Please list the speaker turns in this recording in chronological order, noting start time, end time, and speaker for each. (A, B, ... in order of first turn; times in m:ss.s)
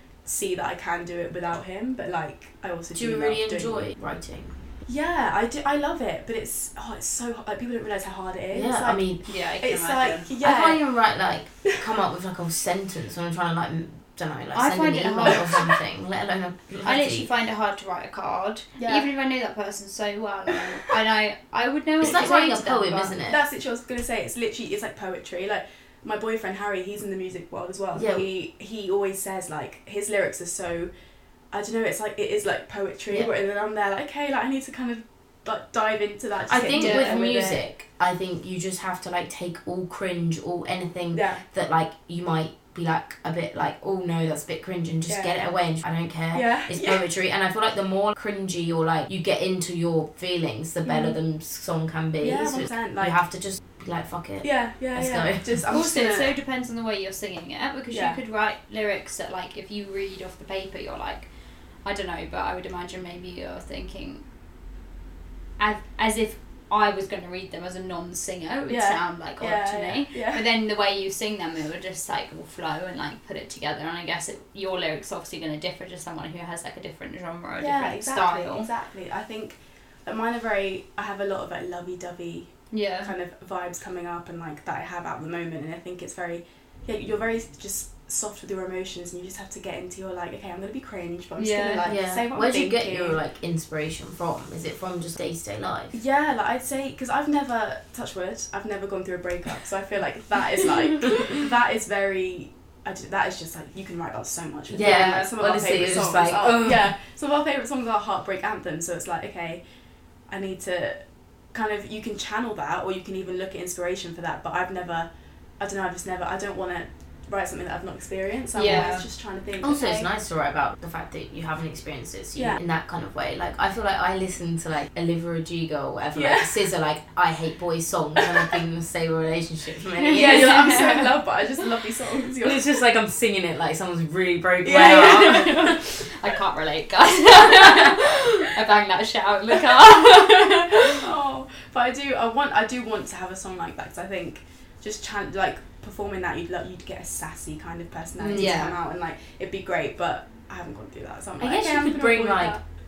0:00.2-0:03.9 A
0:03.0-0:04.6 B
0:04.9-0:10.8 A
0:08.5-0:09.2 B
0:09.3-0:10.3 C
0:10.4-0:17.3 B
0:14.5-0:15.7 C
0:16.8-0:23.2 C
0:18.8-0:19.1 A
0:22.0-0:23.4 B
0:23.2-0:30.9 A
0:28.0-0:28.3 B
0:31.5-0:37.6 A
0:36.5-0:55.6 B
0:36.7-0:37.2 C
0:41.1-0:41.4 A
0:45.1-0:45.4 A
0:46.3-0:47.1 A
0:50.8-0:51.2 A
0:52.2-0:53.2 A
0:54.4-0:56.4 A
0:55.7-1:01.3 C
0:57.9-0:58.2 A
1:01.8-1:04.2 C
1:05.6-1:18.7 C
1:08.7-1:10.4 A
1:17.6-1:33.2 A
1:22.7-1:23.1 C
1:31.4-1:31.9 C
1:31.8-1:36.0 B
1:35.9-1:49.6 A
1:44.7-1:46.9 B
1:44.8-1:45.1 C
1:50.3-1:51.0 A
1:51.5-1:55.1 A
1:55.6-2:00.1 A
1:58.6-1:59.0 C
1:59.6-2:10.9 B
2:06.1-2:06.6 A
2:10.1-2:12.8 A
2:10.2-2:11.1 C
2:12.4-2:15.8 B
2:14.6-2:15.7 A
2:14.7-2:21.1 C
2:19.7-2:32.6 A
2:28.2-2:28.7 B
2:28.3-2:28.8 C
2:31.4-2:32.6 B